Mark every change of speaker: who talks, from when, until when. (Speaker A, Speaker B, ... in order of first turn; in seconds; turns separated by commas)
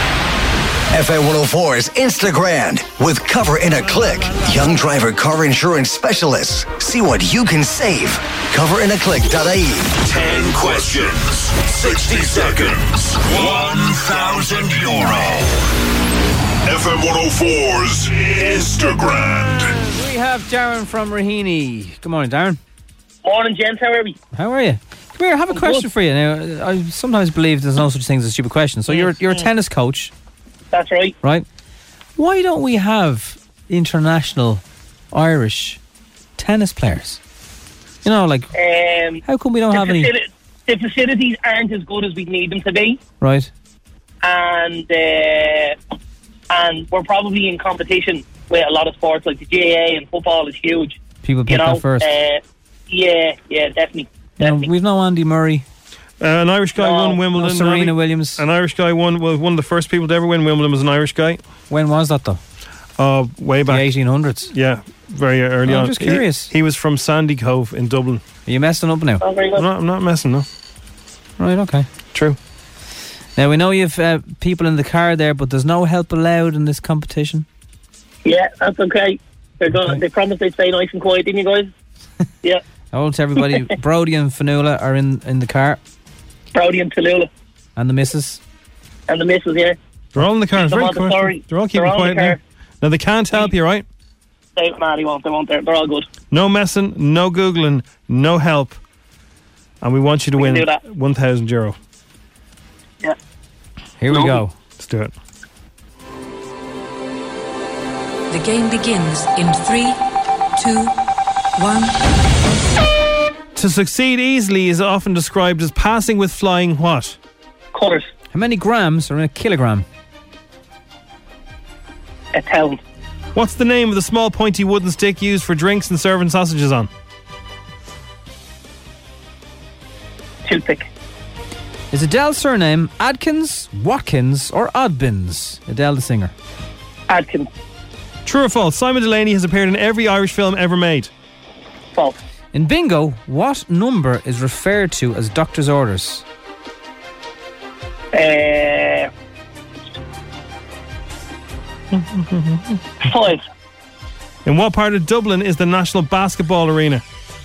Speaker A: 0.9-10.1, Speaker B: 10.0-15.5, Speaker A: 11.8-12.7, Speaker A: 13.7-15.4, Speaker B: 16.6-19.8, Speaker C: 19.8-22.6, Speaker D: 23.2-24.1, Speaker C: 24.4-30.1, Speaker D: 25.5-25.9, Speaker D: 28.9-29.4, Speaker D: 30.7-31.1, Speaker C: 32.2-35.8, Speaker C: 36.4-37.2, Speaker C: 38.0-38.5, Speaker D: 38.5-43.0, Speaker C: 39.2-40.1, Speaker C: 43.2-43.5, Speaker D: 44.2-45.8, Speaker D: 46.5-54.7, Speaker C: 51.2-52.1, Speaker C: 54.4-55.6, Speaker E: 56.2-61.4, Speaker D: 56.8-57.2, Speaker C: 57.3-58.4, Speaker C: 61.7-62.4, Speaker E: 63.0-63.9, Speaker C: 63.7-64.5, Speaker E: 64.5-68.2, Speaker C: 65.7-66.5, Speaker C: 68.5-69.2, Speaker D: 69.2-69.7, Speaker E: 69.6-70.5, Speaker C: 71.4-71.9, Speaker C: 73.4-77.5, Speaker D: 78.2-81.7, Speaker C: 79.7-80.0, Speaker C: 82.9-85.8, Speaker D: 86.5-87.3, Speaker C: 87.8-88.4, Speaker D: 89.1-89.8, Speaker E: 90.1-93.8, Speaker D: 90.5-92.4, Speaker D: 94.6-96.1, Speaker E: 96.3-98.8, Speaker E: 99.8-101.8, Speaker D: 100.4-100.8, Speaker C: 104.0-104.5, Speaker D: 104.1-104.4, Speaker E: 104.8-105.1, Speaker F: 108.3-110.0, Speaker F: 110.6-110.9, Speaker F: 111.6-111.9, Speaker E: 113.5-117.2, Speaker D: 117.7-118.1, Speaker C: 118.3-119.9, Speaker D: 122.3-122.8, Speaker E: 123.3-126.9, Speaker D: 130.4-130.9, Speaker C: 131.9-136.3, Speaker D: 137.1-137.5, Speaker E: 138.3-141.1, Speaker C: 142.5-146.2, Speaker D: 148.1-149.1, Speaker E: 151.9-152.8, Speaker D: 153.0-153.4, Speaker E: 154.4-157.0